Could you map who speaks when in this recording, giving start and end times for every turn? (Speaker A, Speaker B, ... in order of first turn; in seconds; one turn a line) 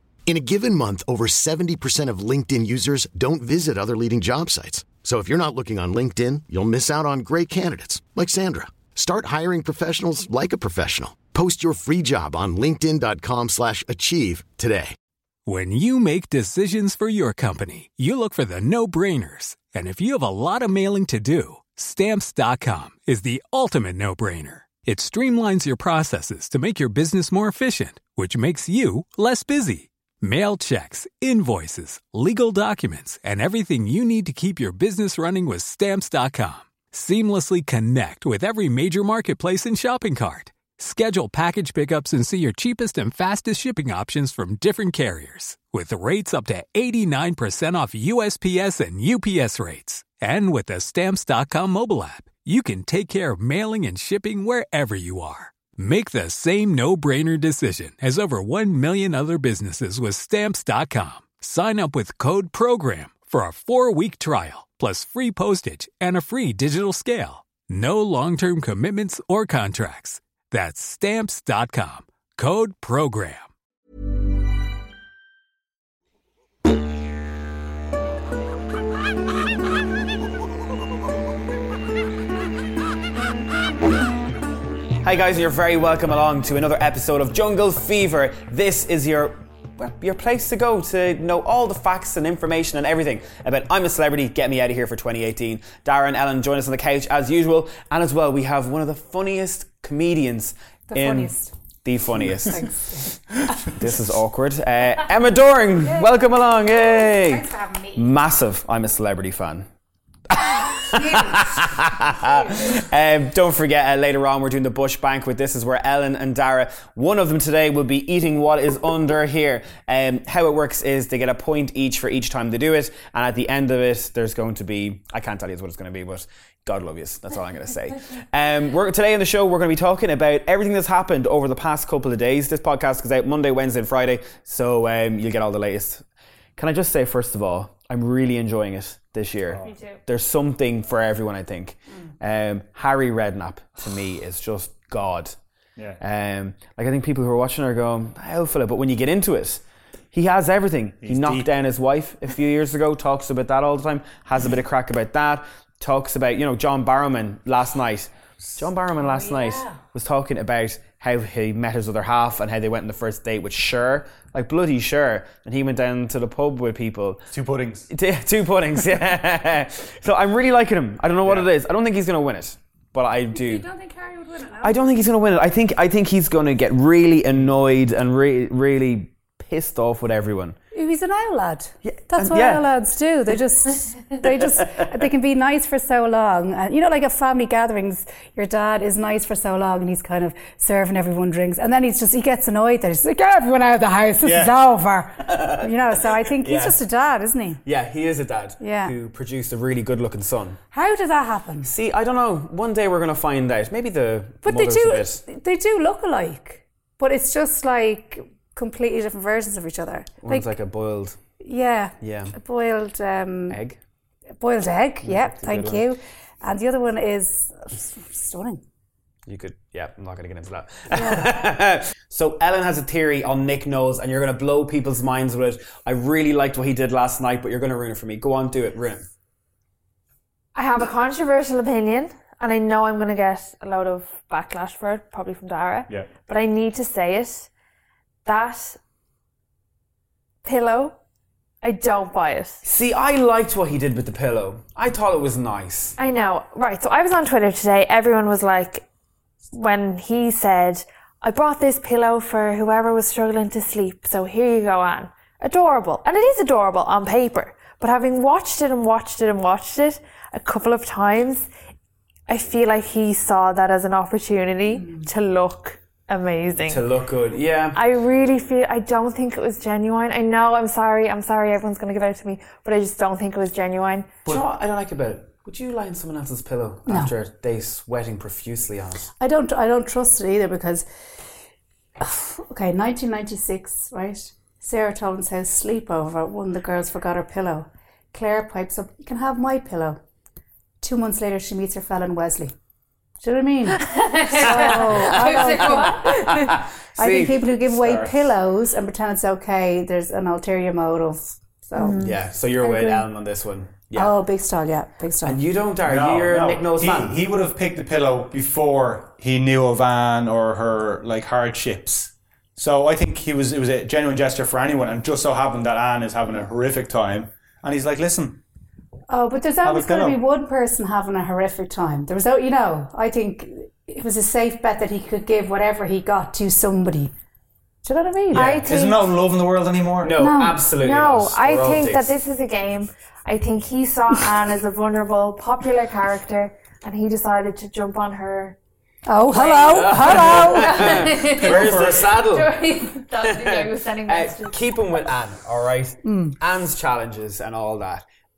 Speaker A: 0.2-14.9
Speaker B: 15.4-73.5
Speaker C: 85.0-102.6
Speaker D: 100.9-101.5
Speaker D: 102.5-103.2
Speaker C: 103.7-107.4
Speaker D: 105.8-108.1
Speaker C: 107.9-109.7
Speaker C: 110.3-136.0
Speaker D: 110.9-111.5
Speaker C: 136.6-145.3
Speaker E: 139.6-140.0
Speaker C: 146.0-149.6
Speaker C: 150.1-167.2
Speaker F: 151.0-151.5
Speaker F: 167.3-167.8
Speaker C: 167.9-173.7
Speaker F: 171.2-171.5
Speaker D: 173.3-174.8
Speaker C: 174.6-180.6
Speaker D: 180.7-197.6
Speaker C: 181.8-182.7
Speaker F: 194.2-194.5
Speaker C: 196.4-196.8
Speaker C: 197.6-200.6
Speaker D: 198.6-198.9
Speaker D: 200.7-201.7
Speaker C: 201.6-205.2
Speaker D: 204.4-210.5
Speaker C: 210.2-211.2
Speaker D: 211.4-213.6
Speaker C: 212.0-212.3
Speaker C: 213.5-213.8
Speaker D: 214.4-218.6
Speaker C: 215.0-215.9
Speaker C: 219.2-229.1
Speaker D: 220.9-221.3
Speaker E: 230.5-237.5
Speaker E: 238.2-238.8
Speaker E: 240.4-240.9
Speaker E: 241.6-242.6
Speaker C: 242.6-245.9
Speaker E: 246.0-248.8
Speaker E: 249.5-261.5
Speaker E: 262.3-266.8
Speaker C: 266.6-267.8
Speaker E: 267.7-274.1
Speaker C: 274.2-279.1
Speaker D: 276.9-277.1
Speaker D: 279.2-280.8
Speaker D: 282.0-290.0
Speaker D: 290.8-292.5
Speaker D: 293.2-303.1
Speaker E: 293.8-296.3
Speaker C: 294.4-297.5
Speaker F: 297.8-298.2
Speaker C: 302.0-304.1
Speaker D: 303.9-305.4
Speaker C: 305.2-307.2
Speaker F: 305.8-318.4
Speaker D: 319.1-327.1
Speaker F: 319.6-320.2
Speaker D: 327.8-328.6
Speaker F: 328.3-330.2
Speaker E: 328.3-329.0
Speaker C: 330.0-332.1
Speaker D: 330.2-330.6
Speaker E: 330.8-338.6
Speaker D: 339.1-341.1
Speaker E: 339.3-344.6
Speaker C: 339.7-342.5
Speaker F: 341.3-342.1
Speaker C: 343.2-348.0
Speaker D: 346.0-346.3